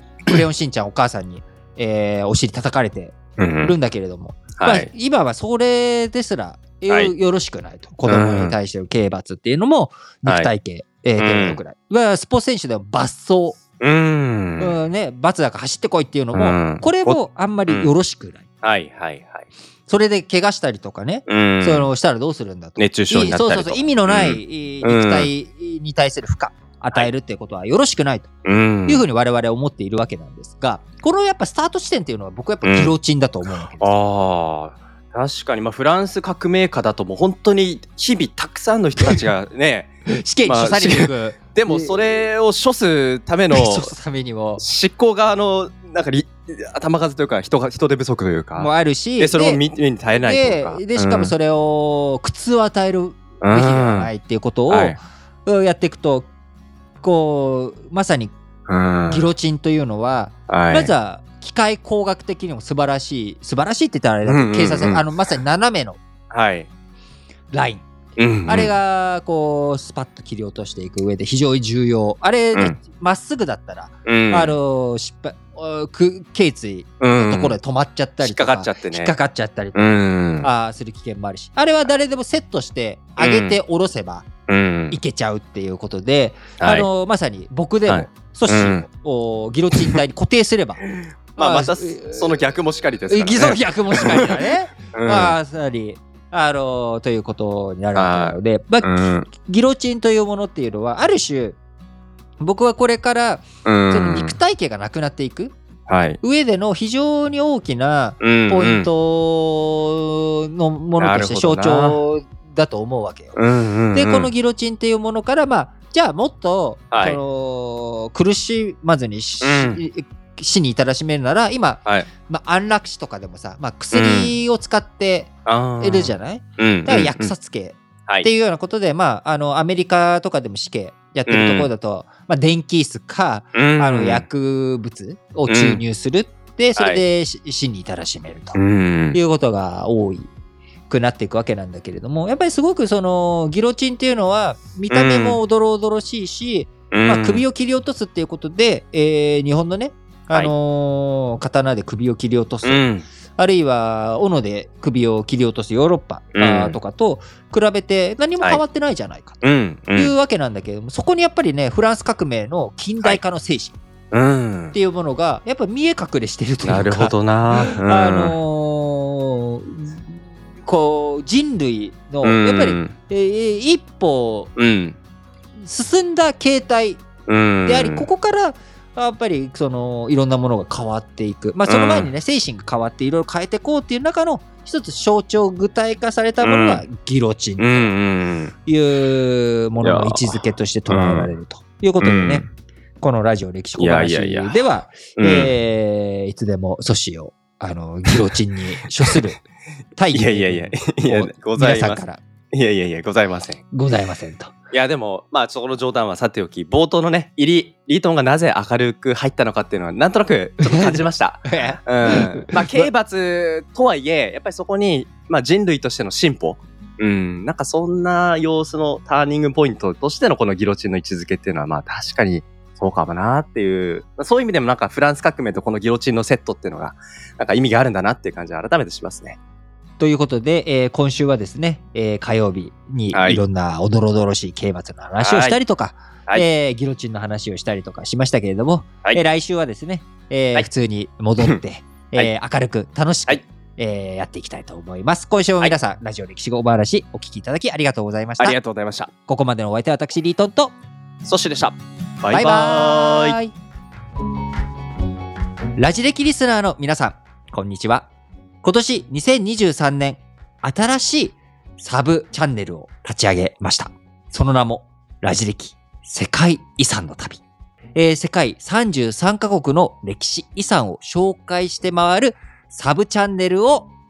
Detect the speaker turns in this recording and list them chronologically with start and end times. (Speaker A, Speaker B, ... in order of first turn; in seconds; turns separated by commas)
Speaker A: 0.2-13.6, Speaker B: 3.4-3.7, Speaker B: 4.5-4.9, Speaker B: 6.9-7.1, Speaker B: 8.1-8.6, Speaker B: 10.2-10.5, Speaker B: 11.2-11.6, Speaker B: 13.8-14.8, Speaker A: 14.6-18.4, Speaker B: 16.3-17.9, Speaker B: 18.6-19.5, Speaker A: 19.9-28.3, Speaker B: 21.3-21.9, Speaker B: 22.8-25.3, Speaker B: 28.4-29.0, Speaker A: 28.9-34.0, Speaker B: 32.6-32.9, Speaker B: 33.8-39.9, Speaker A: 40.1-42.2, Speaker B: 40.4-43.9, Speaker A: 43.5-44.6, Speaker B: 44.6-51.3, Speaker A: 48.5-49.6, Speaker A: 50.2-56.3, Speaker B: 53.4-54.1, Speaker B: 54.7-55.0, Speaker A: 57.0-58.3, Speaker B: 58.7-59.3, Speaker A: 59.1-66.0, Speaker B: 60.5-60.9, Speaker B: 64.2-65.0, Speaker B: 66.3-66.7, Speaker A: 67.5-67.8, Speaker B: 68.2-68.7, Speaker A: 68.5-84.3, Speaker B: 74.0-74.5, Speaker B: 77.0-77.6, Speaker B: 78.2-79.1, Speaker B: 79.7-80.5, Speaker B: 83.2-83.6, Speaker B: 84.5-85.0, Speaker A: 84.9-90.8, Speaker B: 86.6-86.9, Speaker B: 87.9-88.8, Speaker B: 91.0-94.4, Speaker A: 91.3-92.4, Speaker A: 93.1-101.6, Speaker B: 94.9-95.3, Speaker B: 97.9-99.3, Speaker A: 102.4-105.5, Speaker B: 103.6-104.3, Speaker B: 105.9-106.2, Speaker A: 106.2-113.4, Speaker B: 108.2-108.9, Speaker B: 111.0-112.0, Speaker B: 113.3-114.3, Speaker A: 113.9-138.6, Speaker B: 116.9-117.2, Speaker B: 119.4-119.8, Speaker B: 123.9-124.3, Speaker B: 125.5-127.3, Speaker B: 131.3-131.7, Speaker B: 133.5-134.2, Speaker B: 135.5-135.8, Speaker B: 136.8-137.0, Speaker B: 138.5-139.2, Speaker A: 139.1-140.3, Speaker A: 140.9-152.8, Speaker B: 144.9-145.4, Speaker B: 146.9-147.4, Speaker B: 152.6-153.0, Speaker A: 153.4-159.4, Speaker B: 156.3-156.8, Speaker B: 159.4-160.1, Speaker A: 159.9-163.8, Speaker B: 164.1-164.8, Speaker A: 164.7-174.5, Speaker B: 166.6-168.4, Speaker B: 172.2-172.9, Speaker B: 174.6-175.0, Speaker A: 175.6-177.0, Speaker B: 177.3-178.1, Speaker A: 177.6-187.9, Speaker B: 181.7-182.1, Speaker B: 186.4-186.8, Speaker B: 187.6-188.5, Speaker A: 188.6-192.4, Speaker B: 189.8-191.3, Speaker B: 192.0-192.5, Speaker A: 193.0-199.4, Speaker B: 193.8-194.6, Speaker B: 195.2-195.5, Speaker A: 199.9-202.2, Speaker B: 200.1-203.6, Speaker A: 203.7-204.5, Speaker B: 204.7-229.4, Speaker A: 210.7-212.9, Speaker A: 230.0-248.6, Speaker B: 233.1-233.4, Speaker B: 235.2-235.6, Speaker B: 248.4-249.1, Speaker A: 249.3-250.7, Speaker B: 251.2-253.4, Speaker A: 252.3-253.5, Speaker A: 255.8-258.1, Speaker A: 258.6-267.4, Speaker A: 267.9-273.9